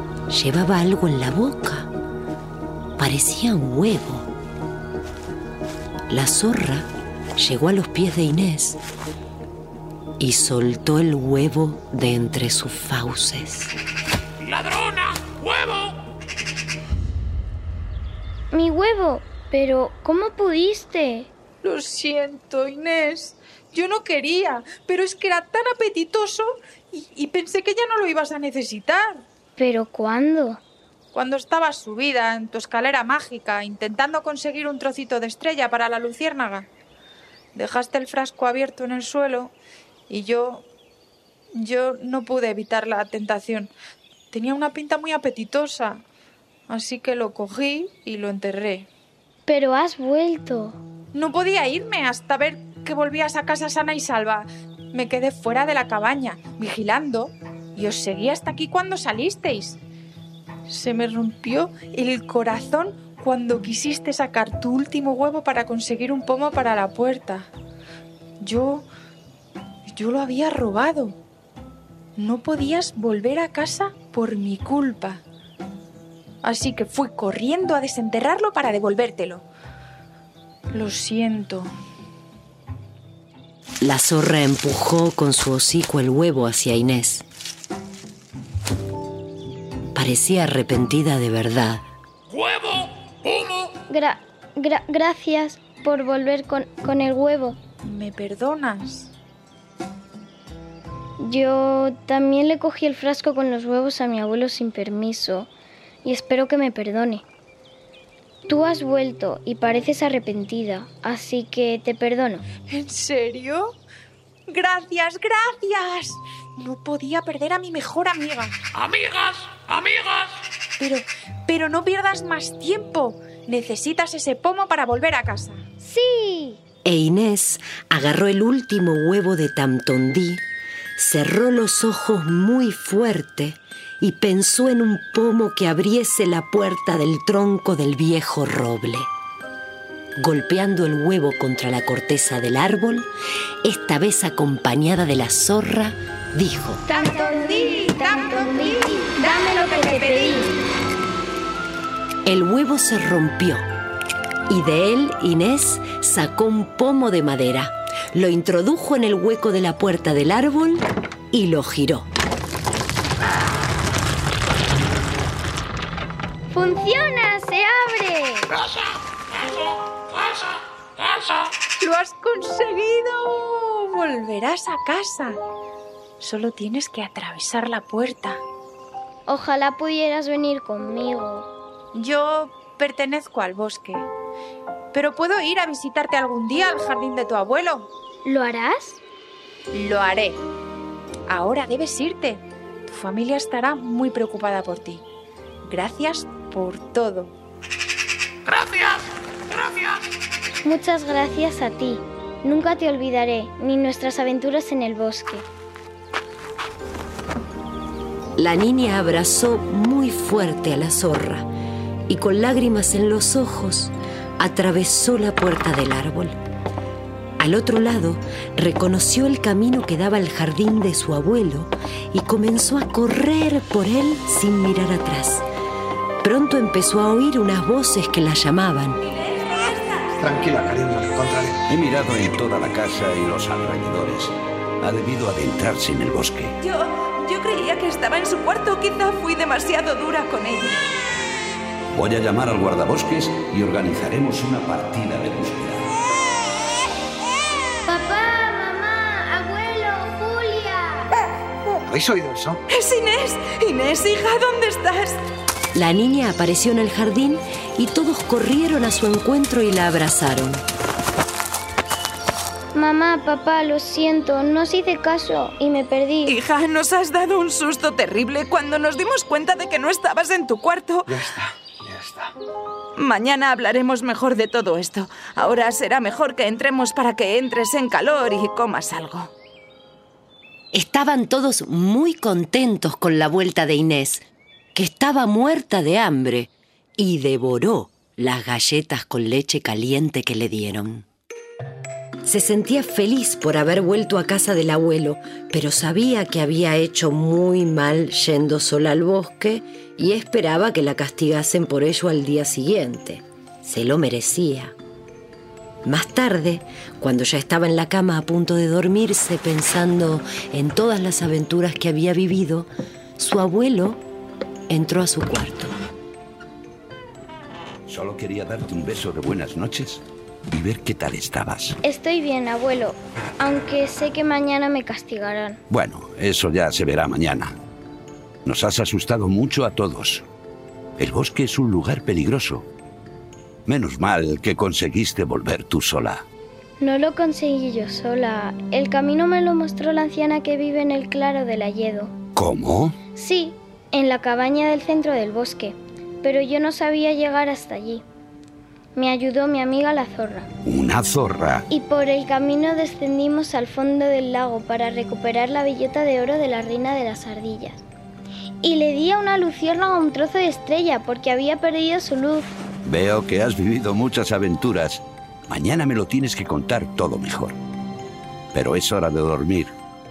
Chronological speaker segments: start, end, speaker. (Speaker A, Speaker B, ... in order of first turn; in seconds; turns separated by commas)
Speaker A: 0.3-1.9, Speaker A: 3.0-4.3, Speaker A: 6.1-8.8, Speaker A: 10.2-13.7, Speaker B: 14.4-15.9, Speaker C: 18.5-21.3, Speaker D: 21.6-29.2, Speaker C: 29.6-30.6, Speaker D: 31.1-36.7, Speaker D: 37.5-39.5, Speaker D: 40.1-40.6, Speaker D: 41.5-43.7, Speaker D: 44.3-46.0, Speaker D: 46.7-48.9, Speaker C: 49.5-50.8, Speaker D: 51.1-59.8, Speaker D: 60.7-67.5, Speaker D: 68.4-68.9, Speaker D: 69.9-71.2, Speaker D: 72.2-75.2, Speaker D: 76.4-79.4, Speaker D: 80.7-81.7, Speaker A: 83.8-87.2, Speaker A: 89.9-91.8, Speaker B: 92.3-93.7, Speaker C: 93.9-97.6, Speaker D: 97.8-99.1, Speaker C: 101.2-105.5, Speaker C: 106.0-107.2, Speaker C: 108.5-112.4, Speaker D: 112.7-113.8, Speaker D: 114.5-118.5, Speaker B: 118.8-120.3, Speaker D: 120.8-125.6, Speaker C: 125.8-126.6, Speaker A: 126.8-130.4, Speaker A: 131.0-139.1, Speaker A: 140.2-143.1, Speaker A: 143.6-146.8, Speaker C: 146.9-150.5, Speaker D: 146.9-150.4, Speaker A: 152.2-153.6, Speaker A: 154.5-162.1, Speaker C: 166.5-168.5, Speaker B: 171.0-171.3, Speaker D: 171.8-175.4, Speaker D: 176.2-178.4, Speaker C: 179.3-181.5, Speaker D: 181.9-184.1, Speaker D: 184.9-187.9, Speaker C: 188.2-189.0, Speaker D: 189.7-190.4, Speaker D: 191.3-195.0, Speaker D: 195.7-197.3, Speaker B: 198.5-200.0, Speaker C: 200.6-205.4, Speaker A: 208.4-211.5, Speaker A: 212.1-216.4, Speaker A: 217.4-225.4, Speaker A: 226.2-229.0, Speaker E: 229.2-230.5, Speaker F: 230.2-231.6, Speaker G: 231.7-236.5, Speaker E: 236.6-240.8, Speaker G: 241.9-245.8, Speaker C: 247.8-251.1, Speaker F: 251.8-252.6, Speaker E: 252.7-255.2, Speaker A: 255.7-260.6, Speaker C: 262.7-266.3, Speaker E: 266.3-271.4, Speaker F: 271.1-272.3, Speaker E: 273.0-279.3, Speaker A: 280.7-291.1, Speaker A: 292.2-304.7, Speaker A: 305.9-314.0, Speaker A: 314.7-315.8, Speaker G: 317.9-321.8, Speaker C: 321.8-325.6, Speaker G: 325.7-327.5, Speaker G: 328.4-330.2, Speaker G: 331.0-332.7, Speaker G: 333.6-336.2, Speaker C: 336.8-342.1, Speaker G: 342.4-342.9, Speaker C: 343.1-348.0, Speaker C: 348.9-350.5, Speaker G: 350.6-351.6, Speaker C: 351.7-357.8, Speaker C: 358.6-362.5, Speaker G: 362.8-367.6, Speaker G: 368.5-369.7